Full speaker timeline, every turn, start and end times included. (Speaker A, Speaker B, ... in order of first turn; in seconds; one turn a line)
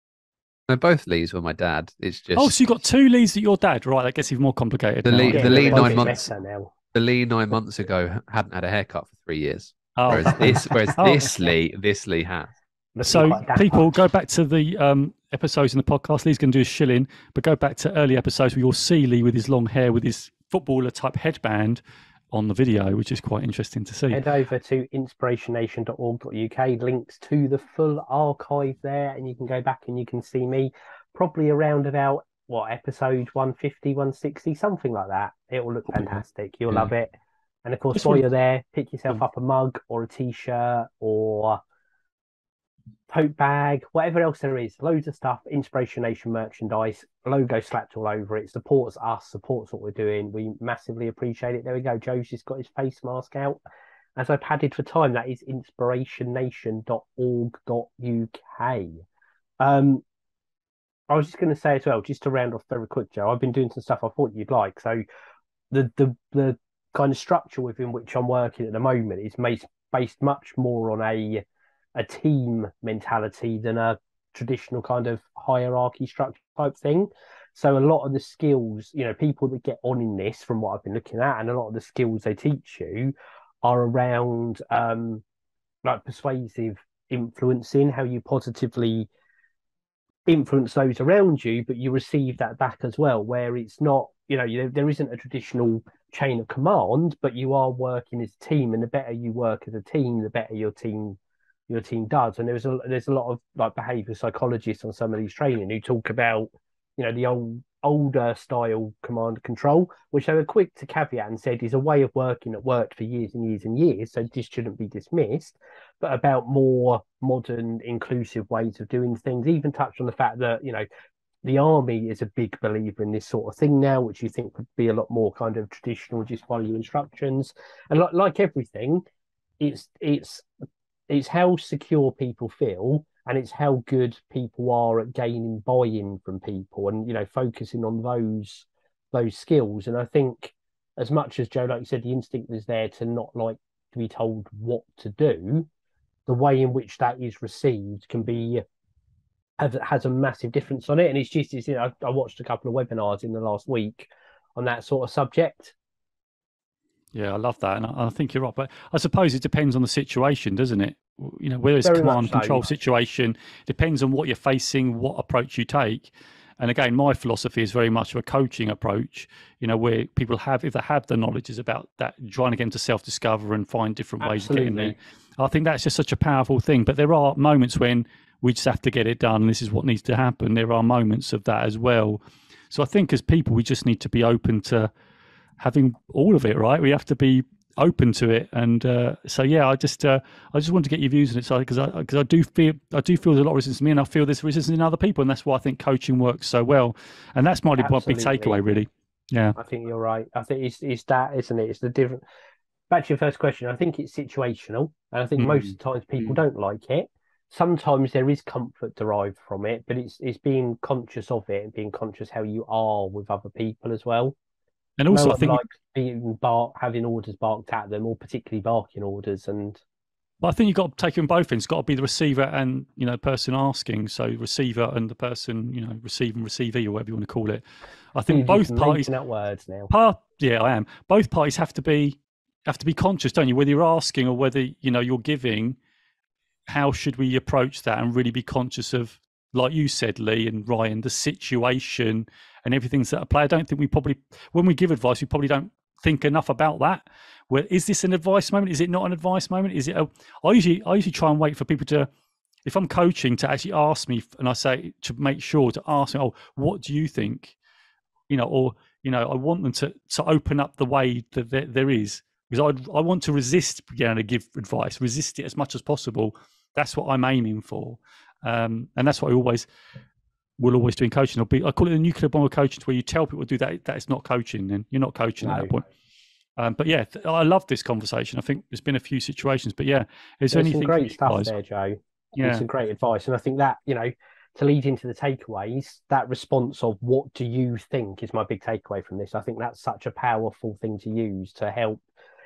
Speaker A: 0.7-2.6
Speaker B: 2.4-6.1
Speaker A: 5.0-6.2
Speaker C: 5.3-6.7
Speaker A: 6.9-12.5
Speaker B: 10.0-11.3
Speaker C: 10.2-10.7
Speaker C: 12.9-13.9
Speaker B: 13.1-24.2
Speaker C: 24.1-37.1
Speaker C: 37.6-41.6
Speaker B: 37.9-38.2
Speaker C: 43.1-53.6
Speaker C: 54.1-59.0
Speaker C: 59.6-60.0
Speaker C: 61.1-65.0
Speaker C: 65.7-85.2
Speaker C: 85.8-89.1
Speaker C: 90.2-101.2
Speaker C: 101.7-120.9
Speaker C: 121.4-129.0
Speaker C: 129.6-130.4
Speaker C: 131.1-145.7
Speaker C: 146.3-148.6
Speaker C: 149.6-155.7
Speaker B: 157.1-184.9
Speaker C: 161.8-162.7
Speaker C: 174.2-174.9
Speaker B: 185.6-199.6
Speaker C: 197.8-198.6
Speaker C: 199.6-202.2
Speaker C: 202.9-214.3
Speaker B: 205.4-206.4
Speaker B: 215.0-215.6
Speaker C: 215.1-219.8
Speaker B: 220.4-227.6
Speaker B: 228.1-229.1
Speaker C: 228.3-229.9
Speaker B: 229.9-235.8
Speaker B: 236.7-252.1
Speaker B: 252.6-257.5
Speaker B: 258.3-269.7
Speaker B: 270.6-275.8
Speaker C: 275.4-275.7
Speaker B: 276.6-281.5
Speaker C: 280.5-292.0
Speaker B: 282.4-282.6